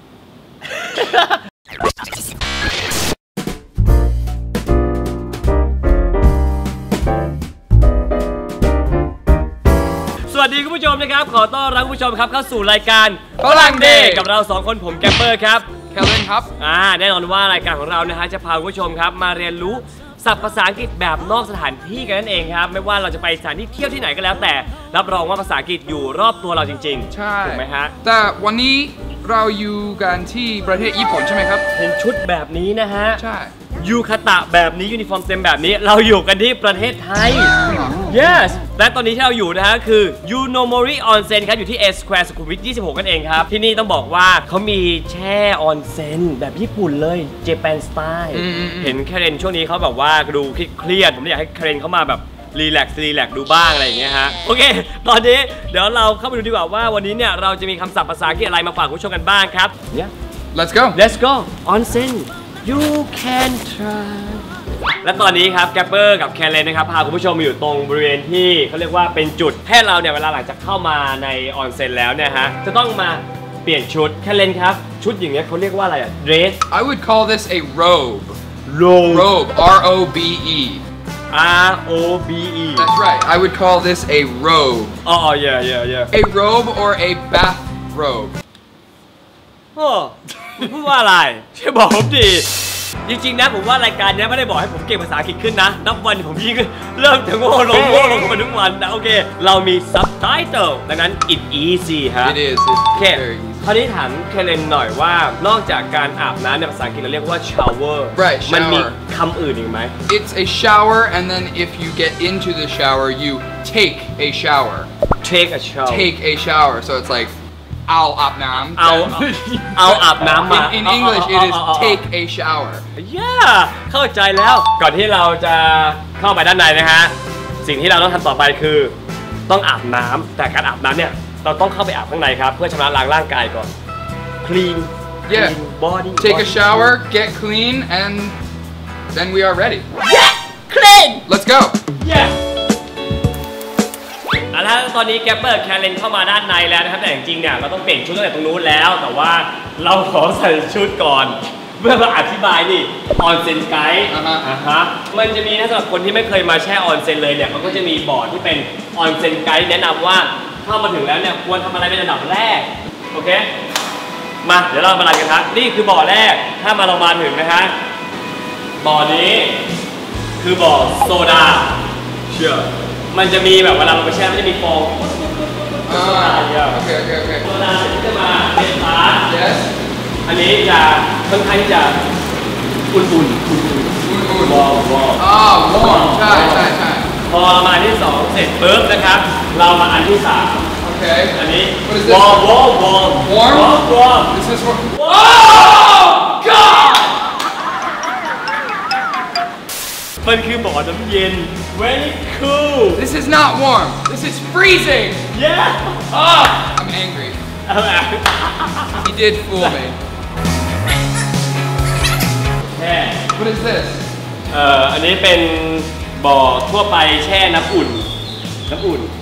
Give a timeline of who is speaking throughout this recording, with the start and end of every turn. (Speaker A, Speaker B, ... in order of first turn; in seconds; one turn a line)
Speaker A: 0.7-1.4
Speaker A: 10.3-15.7
Speaker B: 13.4-14.3
Speaker B: 15.9-16.5
Speaker A: 16.6-27.9
Speaker B: 27.1-31.6
Speaker A: 31.8-33.2
Speaker B: 33.2-33.5
Speaker A: 33.8-37.5
Speaker B: 37.6-38.0
Speaker A: 38.1-60.1
Speaker B: 48.3-49.0
Speaker B: 60.5-61.0
Speaker A: 61.0-64.5
Speaker A: 65.0-76.6
Speaker B: 76.7-78.4
Speaker A: 78.7-79.3
Speaker B: 79.1-80.8
Speaker A: 81.3-82.9
Speaker B: 82.8-85.0
Speaker A: 85.0-86.1
Speaker B: 86.1-88.4
Speaker A: 89.8-92.5
Speaker A: 93.0-102.4
Speaker B: 102.2-103.7
Speaker A: 103.0-109.9
Speaker B: 108.2-109.0
Speaker B: 110.1-114.9
Speaker A: 115.2-116.1
Speaker B: 115.9-117.3
Speaker B: 117.9-122.8
Speaker A: 118.6-122.0
Speaker A: 123.0-128.9
Speaker A: 129.5-133.7
Speaker A: 134.4-136.7
Speaker B: 135.3-135.6
Speaker B: 136.2-138.4
Speaker B: 139.1-139.8
Speaker A: 140.1-141.2
Speaker B: 141.3-141.8
Speaker A: 142.0-142.3
Speaker A: 144.5-163.5
Speaker B: 154.1-154.4
Speaker A: 164.4-167.7
Speaker A: 168.8-169.6
Speaker A: 170.4-171.8
Speaker A: 172.3-176.8
Speaker B: 175.9-177.5
Speaker A: 177.4-179.3
Speaker B: 179.3-179.7
Speaker A: 180.3-182.0
Speaker A: 182.9-186.7
Speaker B: 184.0-184.6
Speaker B: 185.2-187.1
Speaker A: 187.3-190.7
Speaker B: 190.8-192.6
Speaker A: 191.3-194.4
Speaker B: 193.2-197.1
Speaker A: 194.9-197.2
Speaker A: 200.2-203.1
Speaker B: 202.9-205.2
Speaker A: 205.3-206.1
Speaker B: 206.1-207.4
Speaker A: 207.7-209.1
Speaker B: 209.0-210.0
Speaker A: 212.6-213.2
Speaker B: 213.3-214.0
Speaker A: 214.5-218.1
Speaker A: 218.7-219.1